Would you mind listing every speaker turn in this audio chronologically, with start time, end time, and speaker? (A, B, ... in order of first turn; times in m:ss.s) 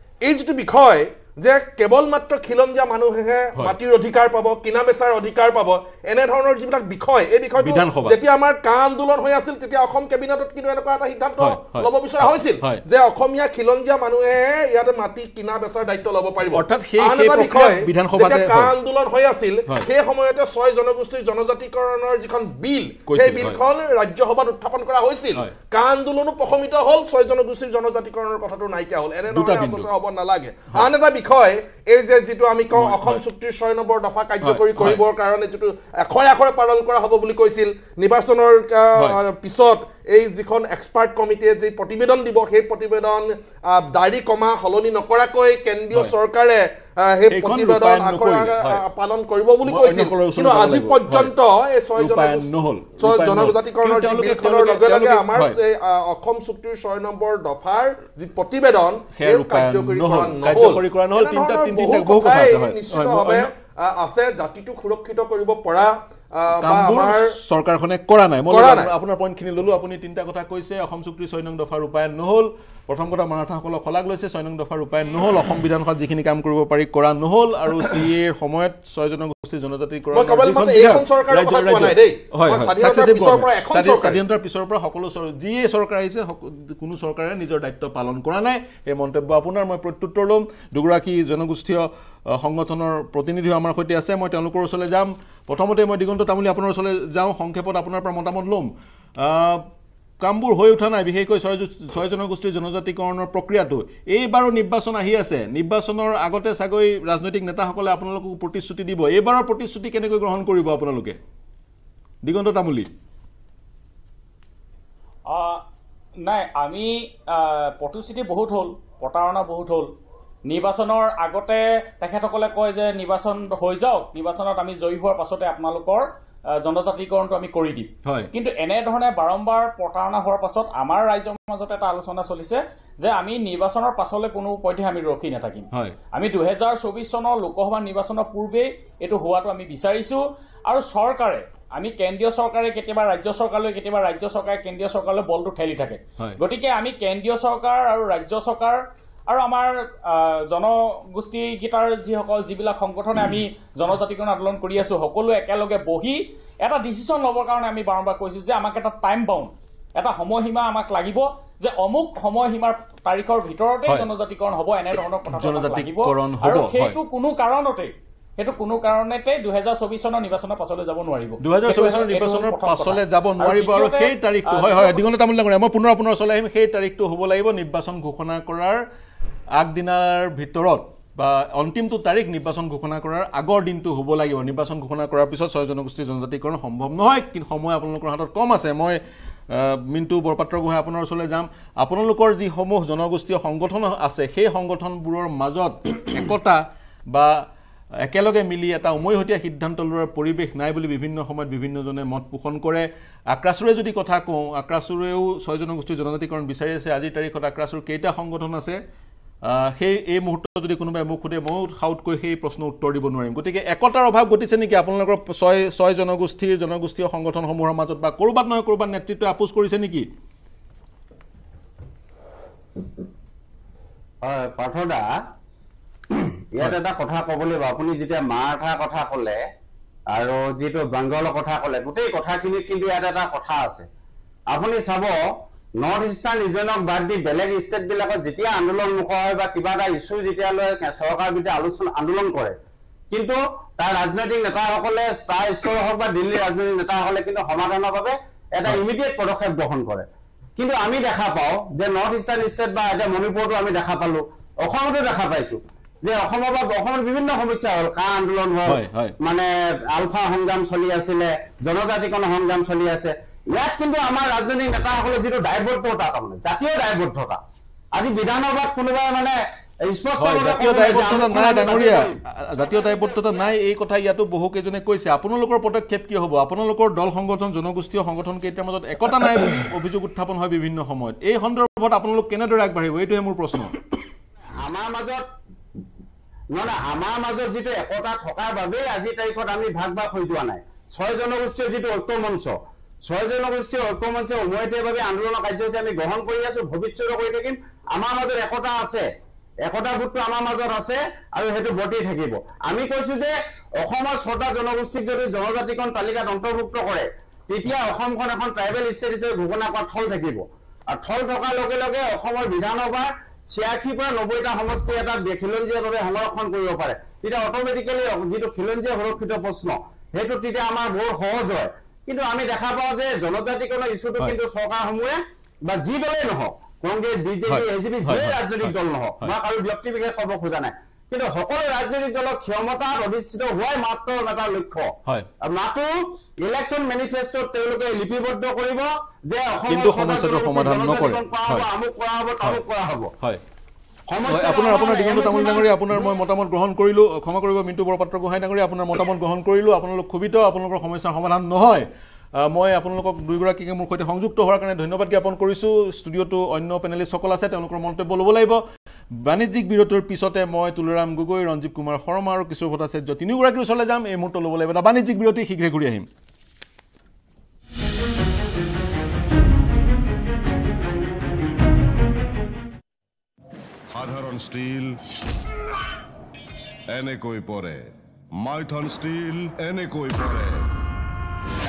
0:00.2-0:52.5 A
0:07.6-0:08.2 B
0:11.4-0:12.8 B
0:16.5-0:18.8 B
0:23.1-0:23.6 B
0:29.3-0:29.9 B
0:32.7-0:33.2 B
0:34.4-0:35.0 B
0:47.3-0:48.8 B
0:49.6-0:51.3 B
0:52.0-0:55.6 B
0:53.0-1:07.3 A
0:59.1-1:03.5 B
1:06.5-1:39.6 B
1:08.5-1:08.9 A
1:20.1-1:24.2 A
1:40.2-1:51.2 B
1:52.2-1:52.9 B
1:55.3-1:55.6 C
1:56.2-1:59.9 C
2:00.5-2:06.1 C
2:06.6-2:55.0 C
2:08.0-2:08.3 B
2:15.7-2:16.0 B
2:45.4-2:47.0 B
2:51.4-2:58.8 B
2:59.6-3:16.6 B
3:17.1-3:17.4 B
3:18.0-3:28.8 B
3:29.4-3:40.1 B
3:44.2-3:45.1 D
3:46.1-3:49.4 D
3:50.1-3:53.9 D
3:54.5-3:55.2 D
3:55.8-4:02.6 D
4:03.1-4:10.0 D
4:10.6-4:27.4 D
4:18.7-4:19.2 B
4:28.0-4:33.1 D
4:30.2-4:43.7 B
4:44.6-4:45.2 D
4:46.5-4:59.0 D
4:59.6-5:34.9 D
5:27.5-5:29.3 B
5:35.4-5:35.9 D
5:36.4-5:43.1 D
5:39.7-5:41.7 B
5:44.1-5:46.1 D
5:44.3-5:58.6 B
5:59.2-6:06.1 B
6:13.9-6:15.0 E
6:16.9-6:20.7 E